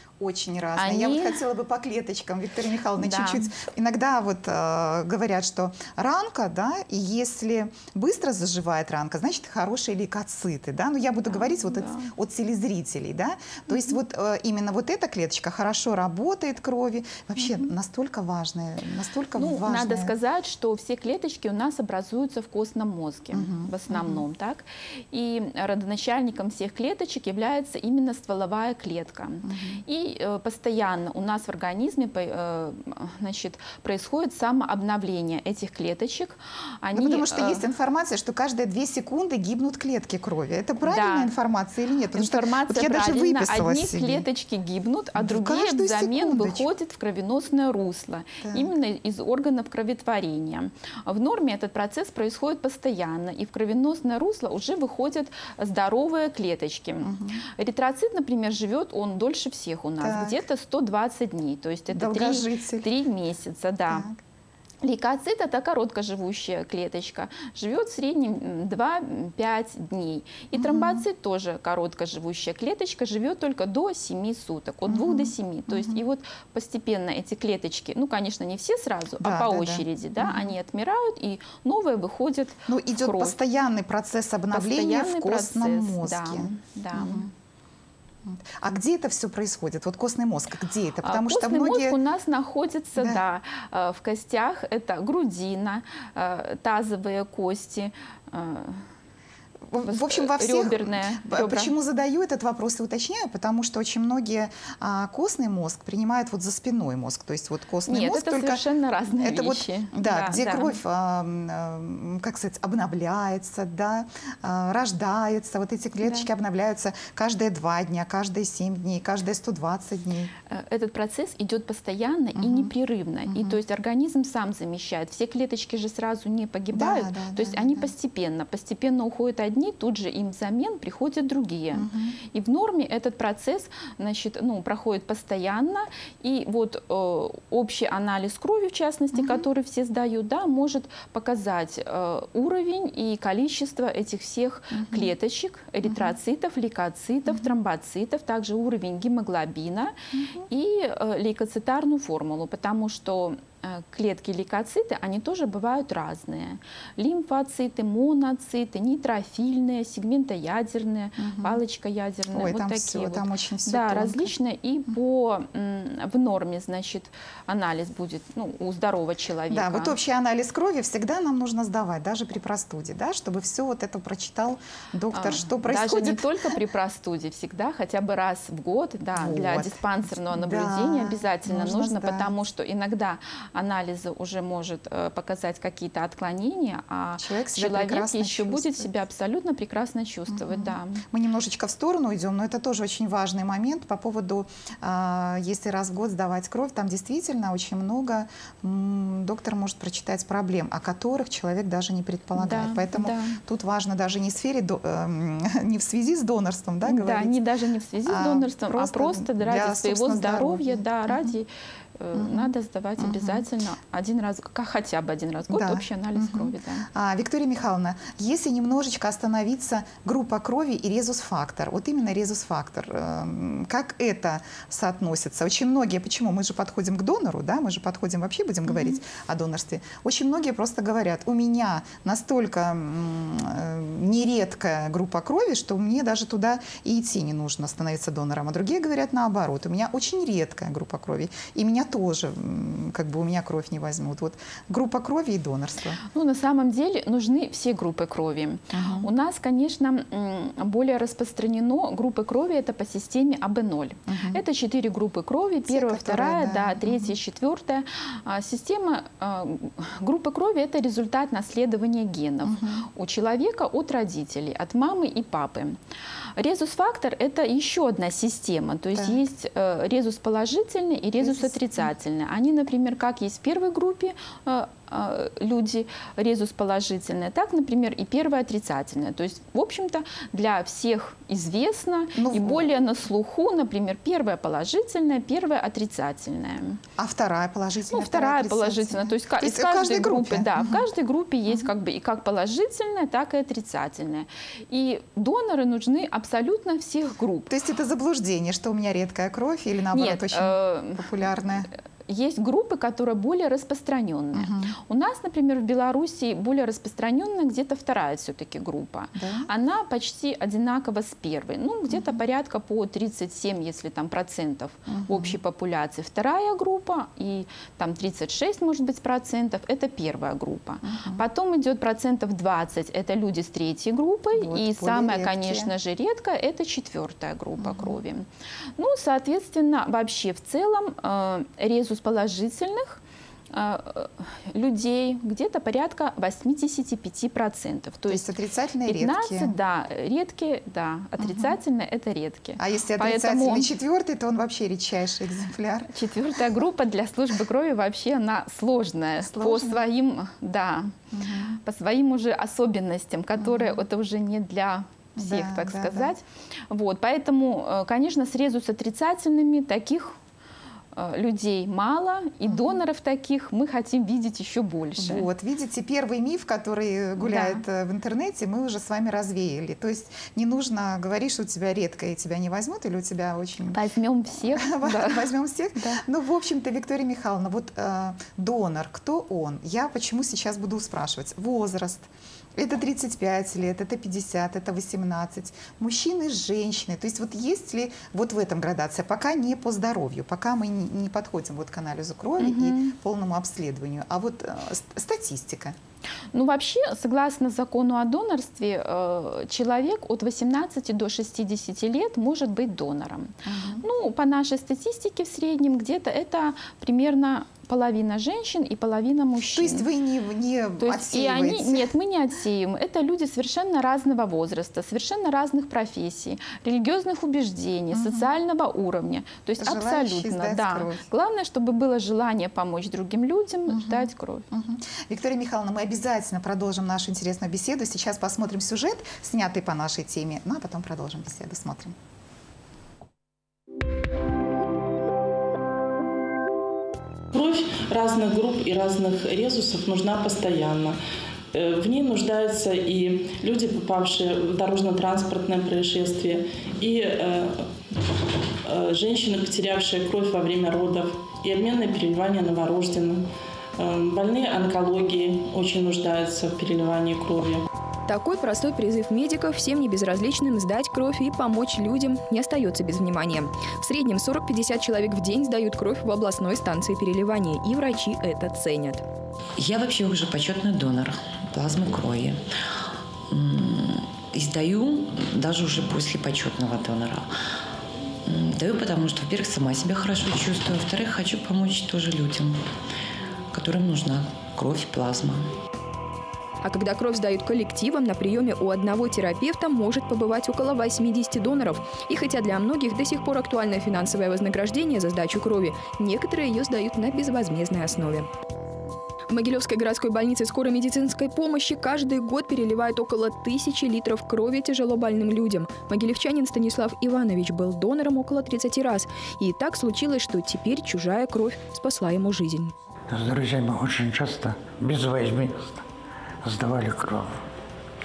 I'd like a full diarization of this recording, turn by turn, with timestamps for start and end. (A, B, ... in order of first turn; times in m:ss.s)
0:00.2-0:20.1 A
0:00.8-0:01.4 B
0:03.0-0:03.5 B
0:11.3-0:12.1 B
0:17.4-0:17.7 B
0:19.4-0:37.6 B
0:23.3-0:24.2 A
0:29.4-0:29.8 A
0:36.9-0:44.2 A
0:40.8-0:41.3 B
0:42.1-1:04.1 B
0:45.1-0:46.7 A
0:48.4-0:48.7 A
0:57.0-0:57.4 A
1:00.0-1:00.4 A
1:01.9-1:02.9 A
1:03.9-1:04.2 A
1:04.8-1:23.3 B
1:10.5-1:11.0 A
1:14.8-1:16.0 A
1:19.2-1:20.5 A
1:22.6-1:27.3 A
1:24.5-1:27.2 B
1:28.2-1:32.0 A
1:31.0-1:38.9 B
1:39.7-1:48.6 A
1:39.8-1:41.7 B
1:47.8-1:50.8 B
1:49.2-2:00.3 A
2:00.5-2:29.9 B
2:02.4-2:02.7 A
2:03.3-2:03.6 A
2:06.7-2:07.9 A
2:11.7-2:12.2 A
2:19.1-2:19.5 A
2:24.7-2:25.1 A
2:25.8-2:26.1 A
2:30.1-2:30.5 A
2:30.5-2:50.0 B
2:41.2-2:41.6 A
2:42.3-2:44.3 A
2:49.5-2:56.3 A
2:55.1-3:11.0 B
2:59.1-3:02.3 A
3:07.2-3:08.9 A
3:10.3-3:27.4 A
3:22.4-3:23.4 B
3:26.8-3:36.9 B
3:28.0-3:31.4 A
3:32.1-3:33.4 A
3:35.5-4:06.0 A
3:48.7-3:49.0 B
4:06.1-4:25.8 B
4:08.7-4:09.1 A
4:14.1-4:14.4 A
4:15.7-4:17.2 A
4:22.4-4:22.9 A
4:26.4-4:46.8 B
4:28.9-4:29.2 A
4:31.2-4:31.9 A
4:42.1-4:42.7 A
4:47.0-4:50.8 A
4:47.9-4:57.5 B
4:57.5-5:01.7 A
4:59.9-5:01.1 B
5:02.1-5:33.0 B
5:04.3-5:04.7 A
5:09.1-5:09.5 A
5:11.9-5:12.2 A
5:14.9-5:15.4 A
5:20.8-5:21.2 A
5:24.4-5:25.7 A
5:27.6-5:28.0 A
5:33.5-5:38.2 B
5:38.1-5:39.5 A
5:38.8-5:43.7 B
5:41.2-5:41.6 A
5:42.6-5:45.9 A
5:45.9-5:50.9 B
5:49.2-5:49.8 A
5:51.1-5:51.6 A
5:51.6-6:00.2 B
5:53.4-5:53.8 A
5:55.2-5:56.1 A
6:00.9-6:05.3 B
6:02.4-6:02.8 A
6:05.0-6:13.8 A
6:07.2-6:07.6 B
6:13.7-6:16.0 B
6:14.5-6:35.8 A
6:32.4-6:32.9 B
6:36.3-6:49.9 B
6:43.4-6:43.8 A
6:49.5-6:51.9 A
6:50.8-7:04.5 B
6:57.9-6:58.3 A
6:59.6-7:01.0 A
7:03.7-7:12.0 A
7:17.3-7:21.0 C
7:21.5-7:28.1 C
7:28.6-7:37.6 C
7:38.1-7:49.0 D
7:49.6-7:57.3 E
7:58.2-8:02.7 E
8:03.5-8:05.5 E
8:06.6-8:18.3 D
8:19.3-8:32.7 D
8:33.1-8:35.8 F
8:36.4-8:37.4 F